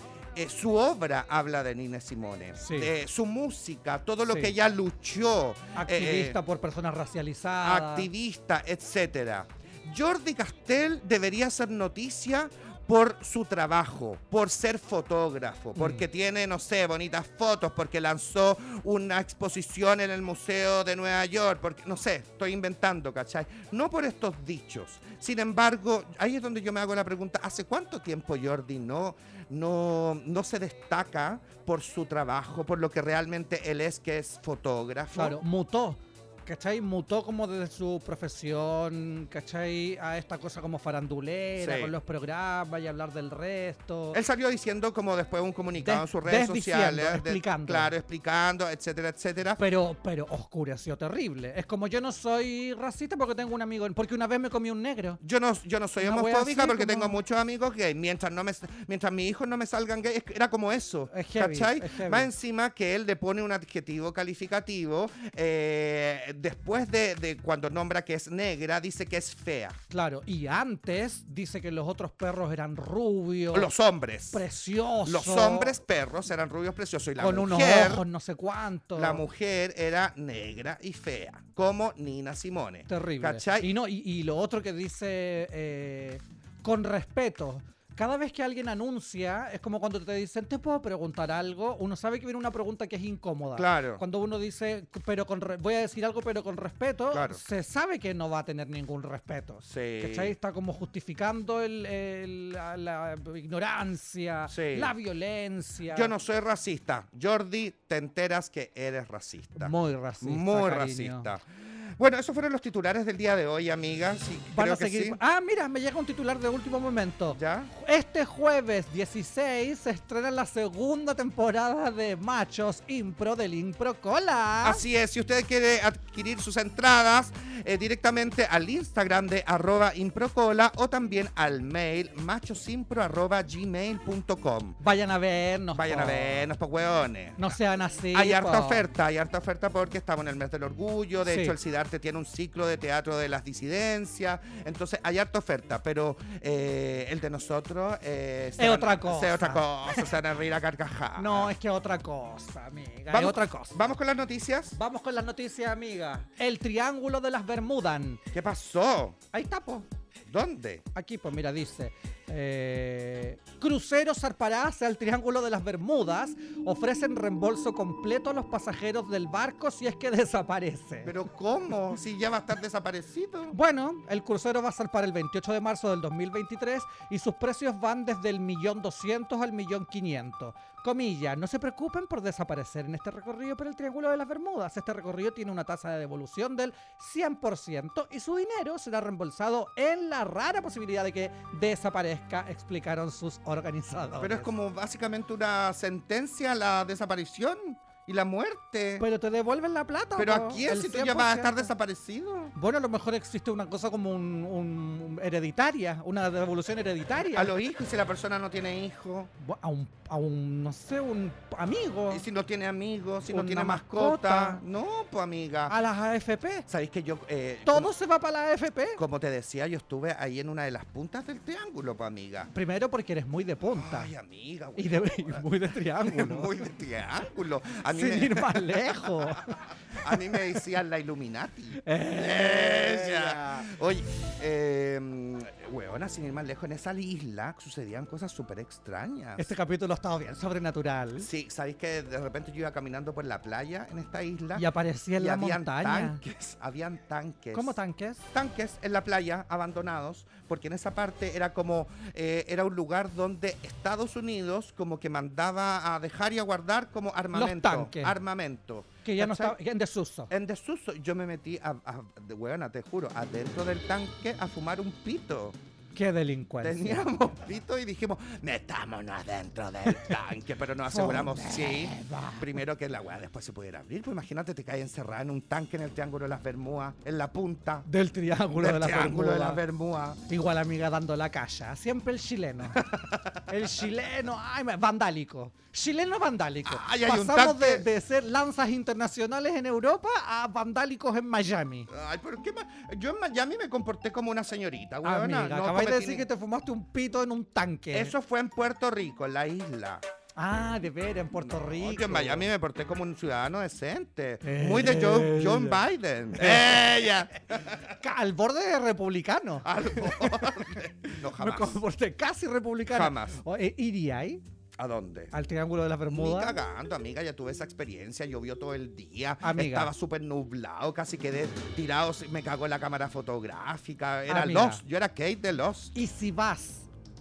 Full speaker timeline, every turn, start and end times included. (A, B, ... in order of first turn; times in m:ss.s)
0:00.3-0:06.4 A
0:02.6-0:02.9 B
0:04.3-0:04.5 B
0:05.8-0:08.1 B
0:07.6-0:35.4 A
0:15.8-0:16.0 B
0:35.1-0:44.2 B
0:41.6-0:41.9 A
0:44.1-0:49.6 A
0:45.8-0:47.9 B
0:49.6-0:55.2 B
0:55.2-1:09.8 A
0:56.0-0:57.2 B
1:01.1-1:02.3 B
1:09.9-1:13.7 B
1:13.5-1:14.4 A
1:14.3-1:15.8 B
1:15.0-1:18.0 A
1:17.2-1:19.2 B
1:18.9-1:23.7 A
1:22.9-1:46.1 B
1:33.5-1:34.0 A
1:37.1-1:37.4 A
1:39.7-1:40.4 A
1:44.5-1:44.9 A
1:45.9-1:55.2 A
1:49.6-1:51.3 B
1:54.5-2:04.8 B
1:57.3-1:57.7 A
2:04.6-2:14.8 A
2:14.8-2:16.5 B
2:15.7-2:17.4 A
2:17.4-2:18.9 B
2:18.1-2:31.5 A
2:21.3-2:21.6 B
2:28.6-2:30.1 B
2:31.2-2:33.8 B
2:33.1-2:34.8 A
2:34.7-2:38.2 B
2:38.3-2:39.2 A
2:39.3-2:39.9 B
2:40.3-2:40.8 A
2:40.9-2:51.1 B
2:51.0-2:53.6 A
2:53.5-3:14.5 B
3:14.2-3:19.0 A
3:19.0-3:21.7 B
3:20.2-3:22.5 A
3:22.5-3:27.5 B
3:27.3-3:29.3 A
3:29.4-3:32.2 B
3:32.1-3:35.7 A
3:33.3-3:34.6 B
3:35.7-3:36.6 B
3:36.7-3:37.9 A
3:37.6-3:39.0 B
3:39.0-3:42.5 A
3:42.5-3:44.1 B
3:43.7-3:45.4 A
3:44.8-3:46.5 B
3:46.0-3:59.5 A
3:47.9-3:49.7 B
3:51.8-3:53.7 B
3:59.4-4:01.3 B
4:01.2-4:04.6 A
4:04.5-4:06.2 B
4:05.2-4:07.8 A
4:07.5-4:08.2 B
4:08.3-4:19.6 A
4:17.3-4:18.2 B
4:19.0-4:20.3 B
4:20.3-4:25.6 A
4:26.0-4:27.1 B
4:26.6-4:37.9 A
4:30.9-4:32.5 B
4:37.8-4:39.6 B
4:38.6-4:40.2 A
4:40.3-4:42.8 B
4:42.7-4:43.5 A
4:43.5-4:51.9 B
4:46.6-4:47.9 A
4:51.9-4:56.3 A
4:55.0-4:58.1 B
4:57.9-5:00.0 A
5:00.4-5:02.5 B
5:01.4-5:07.9 A
5:04.4-5:05.8 B
5:06.3-5:06.9 B
5:07.9-5:14.4 B
5:09.6-5:11.8 A
5:12.9-5:13.4 A
5:14.8-5:15.3 A
5:15.3-5:16.6 B
5:16.1-5:25.9 A
5:19.4-5:19.9 B
5:24.3-5:24.8 B
5:25.9-5:26.9 B